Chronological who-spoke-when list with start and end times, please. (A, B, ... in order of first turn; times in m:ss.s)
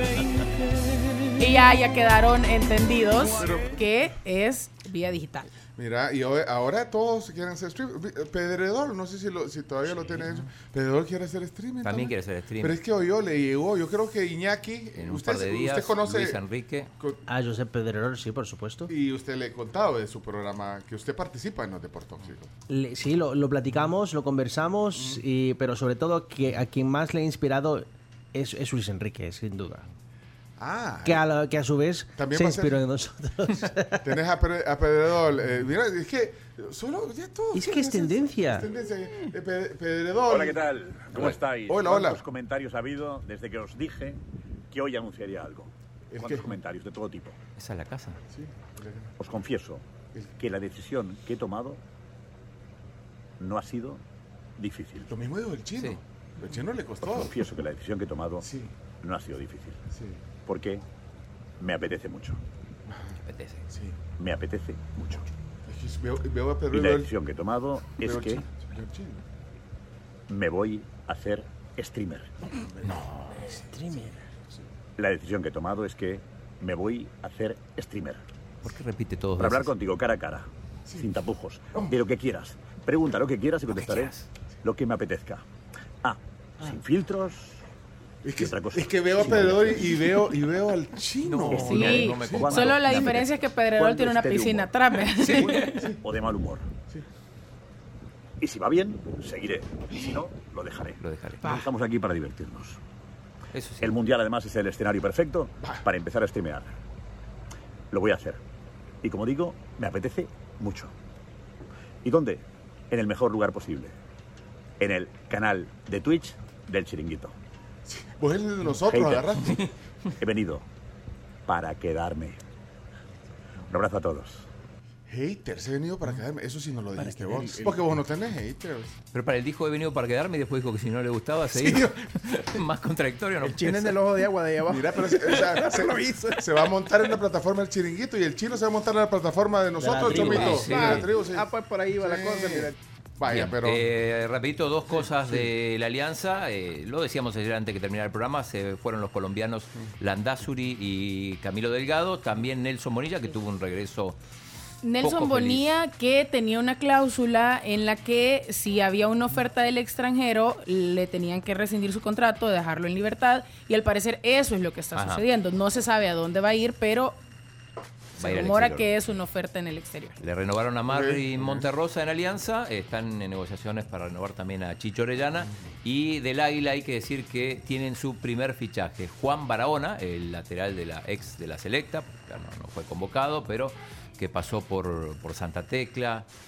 0:01.4-0:05.5 A
0:03.4-0:03.7 B
0:05.8-0:16.4 B
0:09.9-0:10.5 C
0:11.8-0:12.8 C
0:15.0-0:16.9 C
0:17.3-0:18.9 D
0:18.9-0:22.5 B
0:22.7-0:29.9 D
0:25.0-0:25.2 B
0:30.6-0:31.3 B
0:31.0-0:34.1 D
0:32.2-0:32.8 B
0:34.0-0:40.6 B
0:37.5-0:38.7 D
0:40.3-0:47.4 E
0:41.2-0:42.2 B
0:46.1-0:46.5 B
0:47.6-0:48.2 C
0:48.3-0:49.1 B
0:49.2-0:49.8 E
0:50.4-0:51.8 E
0:53.4-0:54.0 E
0:54.6-0:55.1 E
0:55.1-0:57.5 B
0:57.0-0:58.5 E
0:58.4-0:58.7 B
0:59.0-0:59.8 E
0:59.9-1:00.2 B
1:00.4-1:00.8 E
1:01.6-1:02.4 E
1:02.9-1:04.0 B
1:03.3-1:03.6 C
1:04.2-1:05.2 E
1:05.7-1:07.1 B
1:06.7-1:08.4 E
1:08.0-1:09.2 B
1:10.3-1:12.3 E
1:12.5-1:13.9 B
1:13.4-1:14.2 D
1:15.0-1:18.2 E
1:18.6-1:19.7 C
1:19.4-1:25.4 E
1:23.7-1:24.3 C
1:26.0-1:27.6 E
1:28.2-1:33.0 B
1:28.4-1:30.0 E
1:31.2-1:33.2 C
1:31.5-1:34.7 E
1:31.5-1:35.9 A
1:35.2-1:35.8 C
1:35.4-1:36.7 E
1:35.6-1:36.0 B
1:38.4-1:42.8 E
1:41.0-1:41.5 C
1:41.4-1:41.7 A
1:43.5-1:44.0 C
1:43.8-1:46.7 E
1:47.9-1:48.4 E
1:49.0-1:50.9 E
1:52.0-1:53.9 E
1:54.8-1:57.3 E
1:57.9-1:59.7 B
1:58.8-1:59.4 E
2:00.2-2:00.6 E
2:01.5-2:02.4 E
2:03.7-2:04.4 E
2:05.1-2:09.0 B
2:07.0-2:07.8 D
2:09.1-2:14.0 C
2:11.6-2:11.9 B
2:13.4-2:16.5 F
2:14.7-2:23.9 B
2:19.8-2:20.8 D
2:20.1-2:21.1 C
2:20.5-2:22.8 F
2:23.2-2:34.2 C
2:24.9-2:25.5 B
2:34.8-2:47.2 A
2:35.0-2:35.7 C
2:45.0-2:45.2 C
2:48.2-2:48.9 C
2:48.2-2:50.2 A
2:50.2-3:06.3 C
2:50.9-2:51.7 B